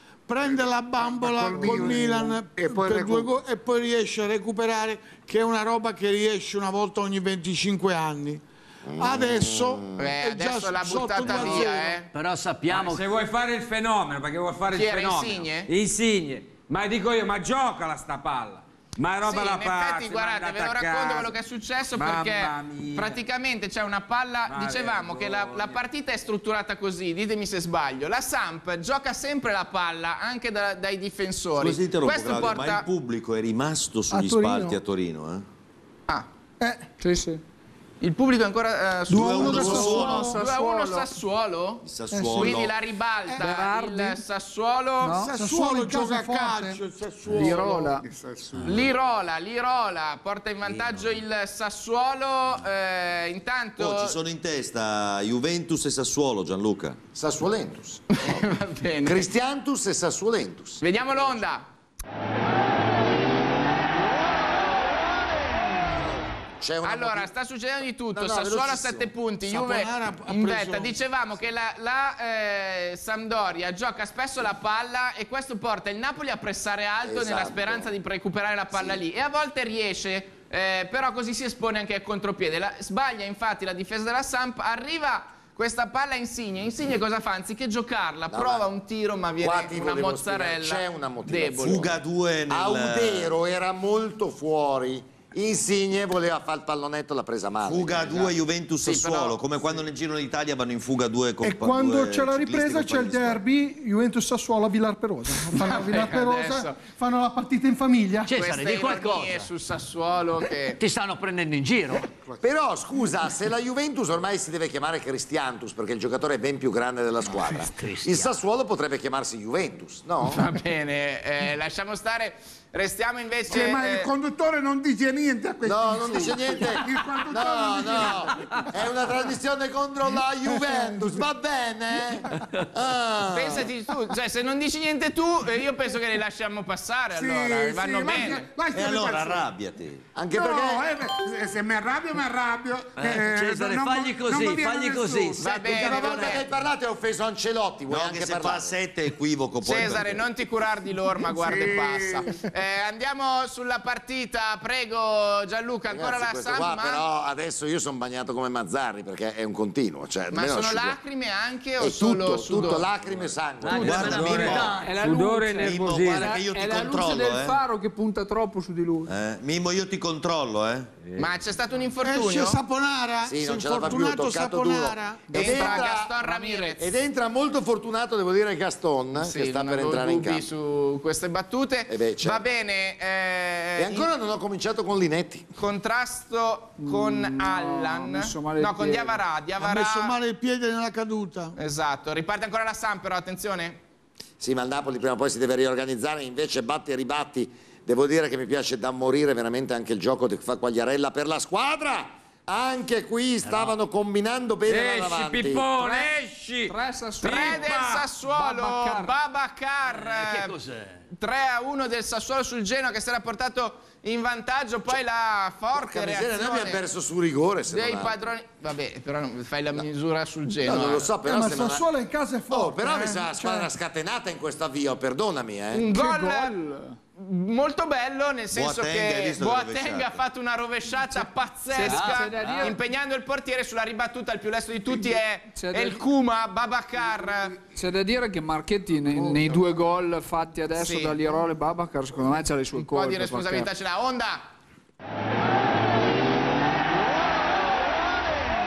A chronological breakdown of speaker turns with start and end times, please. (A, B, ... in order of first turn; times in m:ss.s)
0:00.3-0:08.4 A
0:00.4-0:03.3 B
0:01.6-0:02.2 C
0:08.9-0:10.0 D
0:09.0-0:12.0 A
0:10.0-0:12.1 E
0:12.1-0:13.1 F
0:12.7-0:21.3 G
0:14.7-0:15.7 E
0:19.2-0:32.9 E
0:22.0-0:23.2 G
0:24.5-0:25.8 G
0:31.6-0:35.5 H
0:34.1-0:34.8 I
0:36.6-0:36.9 I
0:37.0-0:37.4 C
0:38.0-0:45.2 E
0:39.1-0:40.4 I
0:39.1-0:40.4 H
0:39.8-0:41.1 C
0:41.8-0:42.8 H
0:42.1-0:42.6 I
0:43.3-0:43.6 A
0:43.4-0:44.2 C
0:45.0-0:45.3 C
0:45.2-0:47.8 A
0:45.3-0:46.8 I
0:47.3-0:48.1 C
0:47.3-0:48.9 B
0:48.5-0:48.8 F
0:48.6-0:54.2 E
0:50.6-0:51.2 F
0:53.8-0:57.0 H
0:57.1-0:58.4 D
0:58.1-0:59.3 E
0:59.0-1:01.4 D
1:00.8-1:01.7 E
1:06.6-1:07.3 D
1:06.8-1:31.9 E
1:08.1-1:09.1 D
1:09.4-1:10.9 A
1:17.0-1:18.0 D
1:18.7-1:19.0 D
1:28.3-1:28.7 D
1:29.4-1:38.4 D
1:31.6-1:33.3 H
1:37.6-1:43.4 H
1:38.8-1:39.4 E
1:41.4-1:48.4 I
1:45.5-1:46.8 E
1:48.2-1:49.5 F
1:48.4-1:50.8 E
1:50.8-1:52.1 F
1:52.4-2:00.4 D
1:57.4-1:58.3 F
2:00.2-2:04.1 E
2:03.5-2:08.6 B
2:05.6-2:13.7 D
2:08.4-2:08.7 F
2:12.4-2:12.7 F
2:13.3-2:18.4 E
2:17.1-2:19.5 B
2:18.7-2:20.0 H
2:20.2-2:20.9 D
2:20.3-2:26.0 B
2:23.0-2:26.4 F
2:25.4-2:26.4 E
2:25.6-2:28.8 D
2:27.9-2:30.2 H
2:29.6-2:37.0 E
2:31.3-2:32.3 B
2:35.9-2:41.0 D
2:40.3-2:42.9 E
2:41.8-2:44.5 D
2:43.6-2:45.0 F
2:43.7-2:44.8 H
2:43.7-2:44.3 E
2:44.0-2:46.4 G
2:44.7-2:49.1 C
2:45.6-2:47.6 H
2:49.1-2:50.9 H
2:51.0-2:51.4 G
2:51.2-2:52.6 E
2:52.0-2:55.4 A
2:53.2-2:56.2 D
2:55.3-2:56.8 C
2:55.3-2:56.9 E
2:56.8-3:00.5 D
2:59.2-3:04.1 E
3:01.9-3:02.4 D
3:03.8-3:05.5 D
3:05.6-3:10.2 E
3:06.8-3:09.2 C
3:09.6-3:11.6 A
3:11.6-3:13.8 E
3:14.4-3:25.6 D
3:23.4-3:23.8 F
3:24.7-3:28.1 G
3:25.8-3:26.1 E
3:26.7-3:29.2 C
3:27.2-3:30.6 E
3:29.8-3:31.0 F
3:31.2-3:36.8 E
3:35.7-3:38.3 D
3:37.7-3:41.1 E
3:40.5-3:41.9 D
3:41.2-3:43.7 I
3:42.5-3:45.9 D
3:45.7-3:46.6 E
3:45.8-3:47.0 C
3:47.2-3:57.6 E
3:48.5-3:50.2 H
3:51.7-3:52.8 C
3:51.8-3:52.8 F
3:55.6-3:56.1 C
3:57.7-4:03.7 C
3:59.1-3:59.6 B
4:00.7-4:01.2 E
4:02.8-4:04.5 E